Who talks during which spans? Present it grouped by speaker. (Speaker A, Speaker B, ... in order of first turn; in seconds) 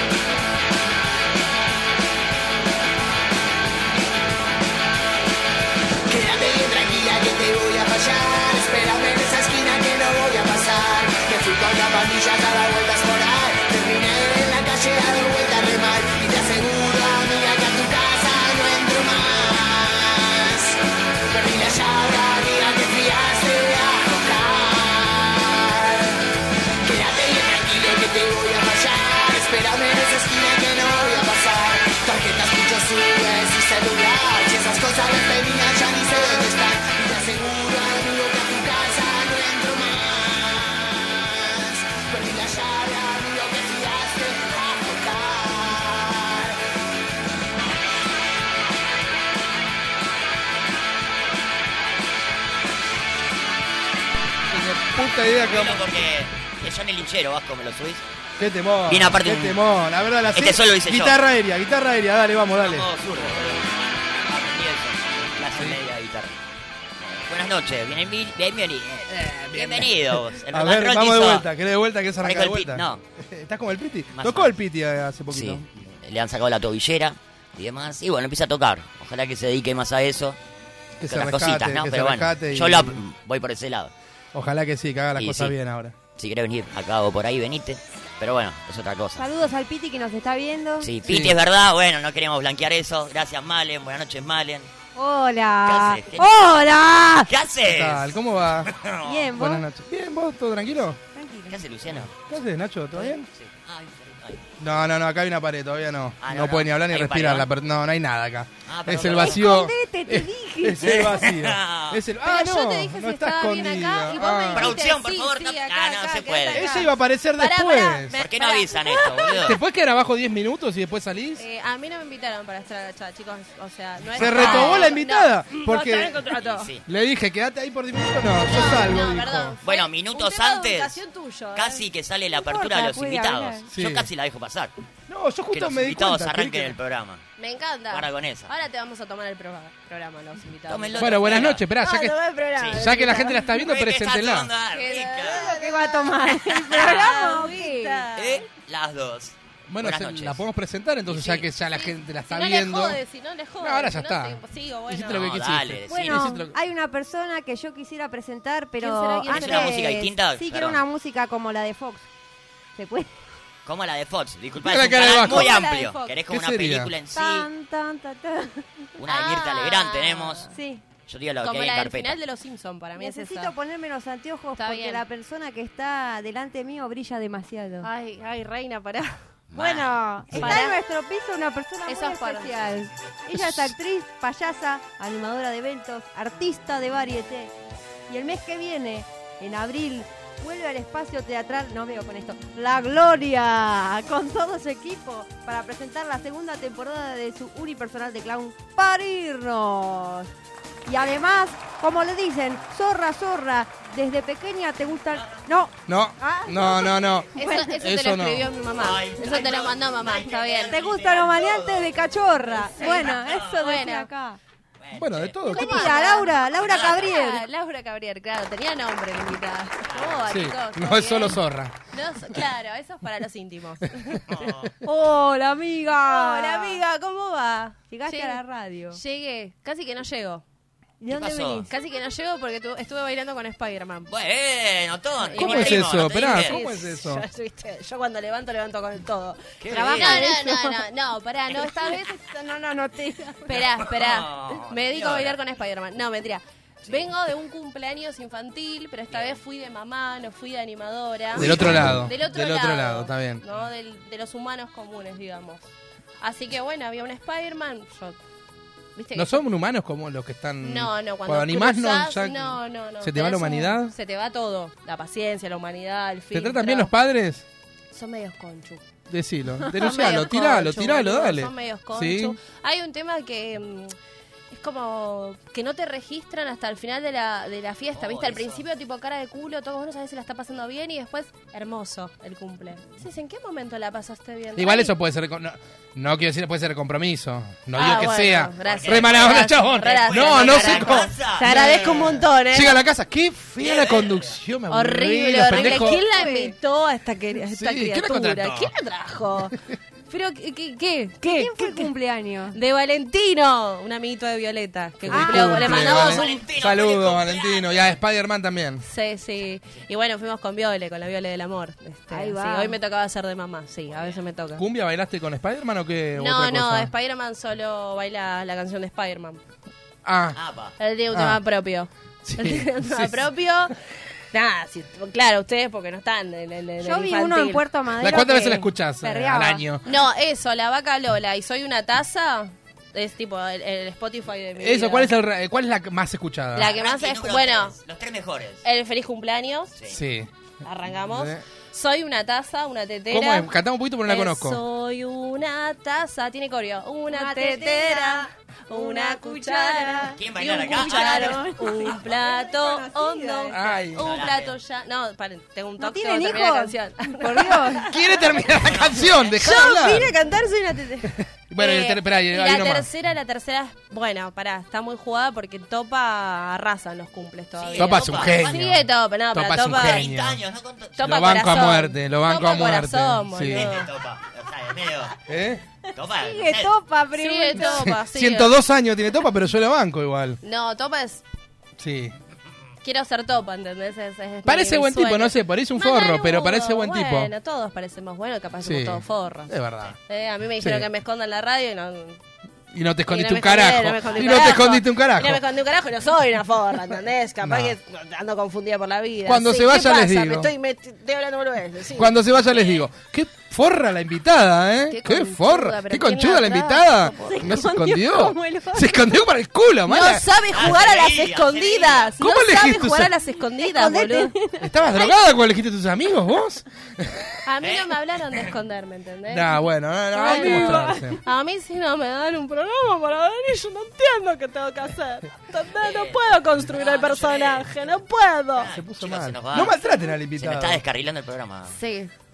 Speaker A: 6.1-26.2, 26.8-46.6
Speaker B: 54.5-56.0, 58.4-62.9, 65.5-65.8, 69.1-75.7, 81.0-83.0, 84.3-86.0, 91.0-91.4, 97.6-98.7, 99.4-101.0, 102.0-103.3, 104.6-114.8, 116.5-118.2, 119.4-121.5, 124.2-126.2, 126.9-129.6, 133.7-134.1, 135.1-136.8, 141.0-142.2, 142.7-144.5, 149.7-153.0, 153.6-156.6, 164.6-165.5, 166.3-166.9, 205.9-208.5, 214.9-215.9, 220.3-221.8, 235.4-237.2, 251.3-253.4, 259.1-263.9, 266.3-267.4, 269.1-272.4, 284.6-296.0, 297.5-298.7, 305.1-308.9, 314.6-316.9, 320.1-320.4, 321.1-321.4, 322.2-323.3, 328.0-329.9, 334.6-336.7, 339.9-340.3, 340.9-341.4, 343.1-344.6, 353.5-354.1, 357.9-360.1, 361.5-362.9, 367.8-370.4, 371.0-373.7, 375.3-375.6, 377.6-380.4, 381.8-382.1, 384.4-387.3, 388.6-390.0, 390.6-390.9, 392.7-395.4, 397.4-397.8, 399.2-400.5, 401.9-410.3, 412.2-413.1, 414.6-417.4, 419.3-421.2, 428.6-430.8
Speaker C: 55.4-58.0, 58.9-59.6, 60.3-61.2, 62.6-63.7, 64.3-66.4, 67.0-71.5, 72.2-73.0, 74.1-74.5, 75.3-80.4, 81.1-83.9, 85.2-85.5, 86.2-89.3, 90.8-94.7, 95.7-96.5, 97.3-98.1, 98.7-99.3, 101.5-102.1, 102.9-104.4, 106.2-107.5, 108.7-109.4, 110.8-112.0, 114.5-116.9, 118.2-119.6, 124.2-124.8, 126.3-126.8, 129.6-131.0, 131.5-134.7, 135.5-137.2, 137.9-138.5, 140.7-141.6, 142.6-142.9, 143.5-145.6, 146.6-147.1, 148.2-150.4, 151.1-151.4, 155.1-156.3, 159.3-160.8, 163.7-167.5, 169.0-170.5, 171.1-172.2, 179.5-180.5, 205.1-205.4, 208.8-212.0, 212.9-213.5, 214.8-215.4, 216.5-217.2, 219.9-220.4, 224.3-224.7, 231.1-231.7, 234.1-236.6, 239.6-240.3, 243.5-245.4, 246.8-247.1, 249.1-249.4, 277.9-278.6, 288.6-292.2, 293.6-294.4, 305.6-307.9, 313.9-314.2, 320.3-320.8, 336.7-338.6, 350.2-351.4, 354.0-354.6, 358.6-359.4, 367.6-368.6, 369.7-371.0, 373.5-375.1, 375.9-376.8, 410.5-412.2, 417.6-418.5, 425.8-427.7, 428.6-429.8, 430.4-431.8
Speaker D: 89.2-90.9, 95.0-97.3, 99.0-99.7, 101.1-101.6, 109.2-111.0, 132.4-133.7, 145.3-148.1, 155.9-162.1, 162.8-163.1, 167.1-168.7, 170.5-170.8, 173.0-177.9, 179.6-187.5, 188.1-200.3, 200.9-207.7, 210.7-214.4, 215.5-217.4, 224.8-226.8, 227.9-229.0, 231.0-231.7, 239.7-240.8, 241.6-243.5, 295.5-296.6, 301.3-302.6, 305.1-305.7, 312.1-312.8, 326.8-329.6, 347.1-353.6, 355.8-357.9, 376.2-377.9, 407.2-408.9, 413.6-415.0, 420.1-421.1
Speaker E: 112.2-119.4, 121.4-126.7, 128.5-131.8, 137.4-143.4, 144.7-148.5, 151.7-155.3, 158.8-159.8, 165.2-166.2, 169.1-170.6, 171.4-173.5, 174.6-175.0, 177.8-179.1, 180.3-180.8, 181.9-182.6, 207.4-210.8, 212.8-214.1, 215.5-221.4, 221.9-224.2, 226.0-228.4, 228.9-230.4, 231.7-234.1, 235.2-242.1, 243.5-255.6, 256.2-258.2, 258.9-259.4, 260.6-266.9, 267.9-268.8, 269.7-273.9, 274.5-284.9, 287.8-292.8, 294.7-299.5, 300.1-301.9, 302.5-306.3, 308.8-314.6, 316.2-319.4, 320.8-323.8, 324.3-327.6, 329.9-335.1, 336.6-337.8, 338.6-339.7, 340.6-343.5, 344.1-358.2, 359.4-370.1, 371.0-373.9, 377.2-378.5, 380.4-381.2, 382.8-389.6, 390.1-392.2, 393.1-402.8, 404.9-407.4, 409.9-414.3, 417.5-419.5, 420.2-428.7, 431.7-432.1